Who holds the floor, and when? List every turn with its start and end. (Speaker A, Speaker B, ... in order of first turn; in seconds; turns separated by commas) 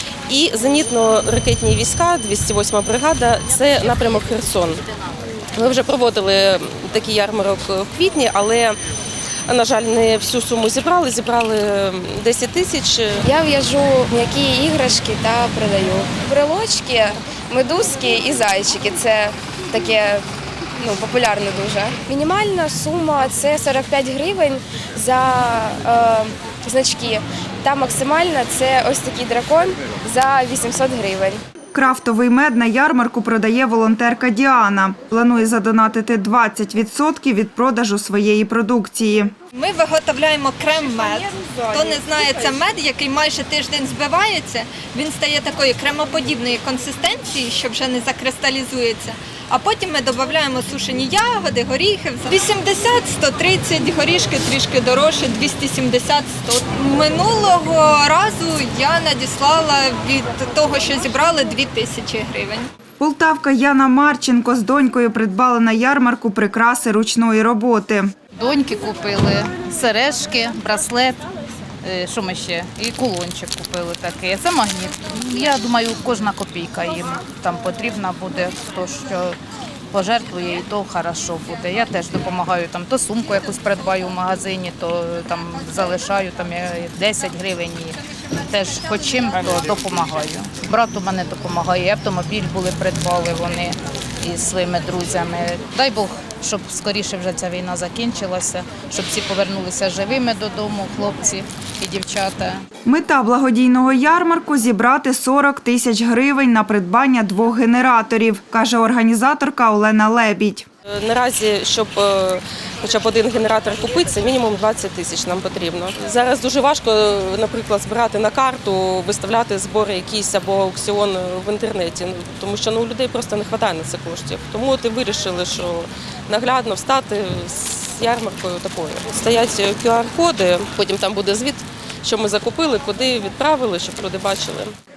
Speaker A: 0.3-4.8, Speaker A: 5.5-8.8, Speaker A: 9.5-13.3, Speaker B: 13.2-20.2, Speaker B: 20.8-31.4, Speaker C: 31.7-39.3, Speaker D: 39.6-62.7, Speaker B: 40.7-42.7, Speaker C: 63.0-68.1, Speaker E: 68.4-71.2, Speaker E: 71.8-79.4, Speaker E: 79.9-102.7, Speaker C: 102.8-110.7, Speaker A: 110.9-134.8